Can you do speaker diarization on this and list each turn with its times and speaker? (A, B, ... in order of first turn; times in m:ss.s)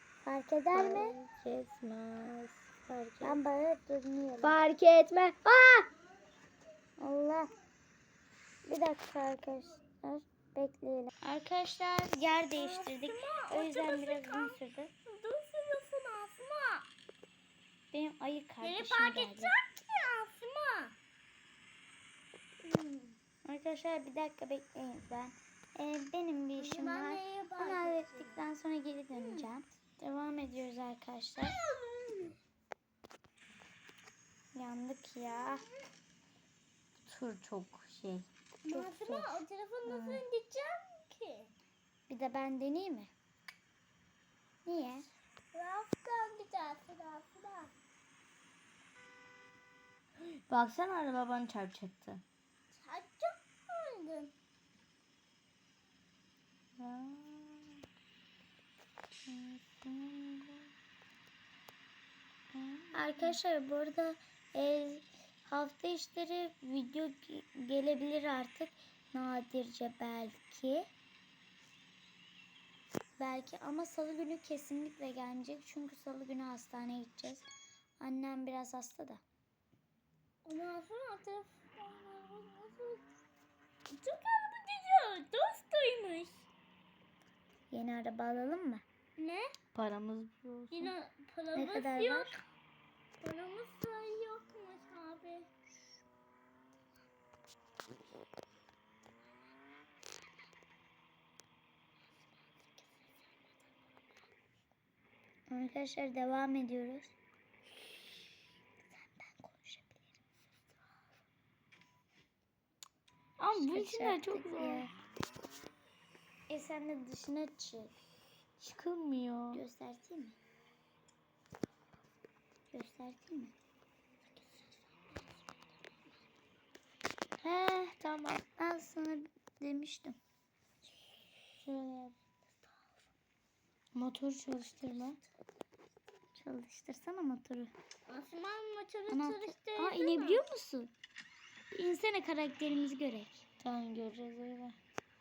0:00.2-0:01.2 A
0:00.7-0:03.4 B
0:03.2-0:04.6 A
0:04.4-0:05.9 B
0:07.0-0:07.5 A
0:08.7-0:14.9 A
0:12.5-0:16.9 C
0:17.9-0:19.5 A
0:18.6-0:21.0 C
0:22.6-0:23.2 C
0:23.4-0:31.6 A
0:26.6-0:28.4 C
0:29.1-0:29.5 C
0:31.4-0:32.4 C
0:34.5-0:35.7 A
0:35.3-0:35.8 C
0:37.0-0:38.3 B
0:38.7-0:41.5 C
0:38.7-0:39.4 A
0:39.9-0:40.2 B
0:42.1-0:43.1 A
0:44.7-0:45.1 A
0:45.5-0:47.7 C
0:50.2-0:52.2 B
0:52.7-0:54.3 C
0:56.8-0:57.8 B
0:59.3-1:00.7 B
1:02.5-1:03.4 B
1:02.9-1:10.9 A
1:13.2-1:17.5 A
1:18.0-1:19.2 A
1:20.4-1:23.0 C
1:23.9-1:26.5 C
1:27.7-1:28.8 A
1:29.2-1:29.5 C
1:29.8-1:30.9 B
1:30.7-1:32.4 C
1:31.6-1:32.4 A
1:33.2-1:35.5 C
1:45.5-1:47.1 A
1:48.9-1:50.1 A
1:53.4-1:54.9 B
1:53.5-1:54.9 A
1:56.5-1:57.9 A
1:58.6-1:59.6 B
1:59.5-2:00.4 A
2:02.7-2:03.6 A
2:07.4-2:08.4 B
2:08.6-2:10.2 A
2:11.6-2:12.1 B
2:13.9-2:15.2 B
2:16.4-2:17.7 A
2:18.1-2:20.5 C
2:19.1-2:20.9 A
2:21.7-2:23.3 A
2:23.6-2:24.8 B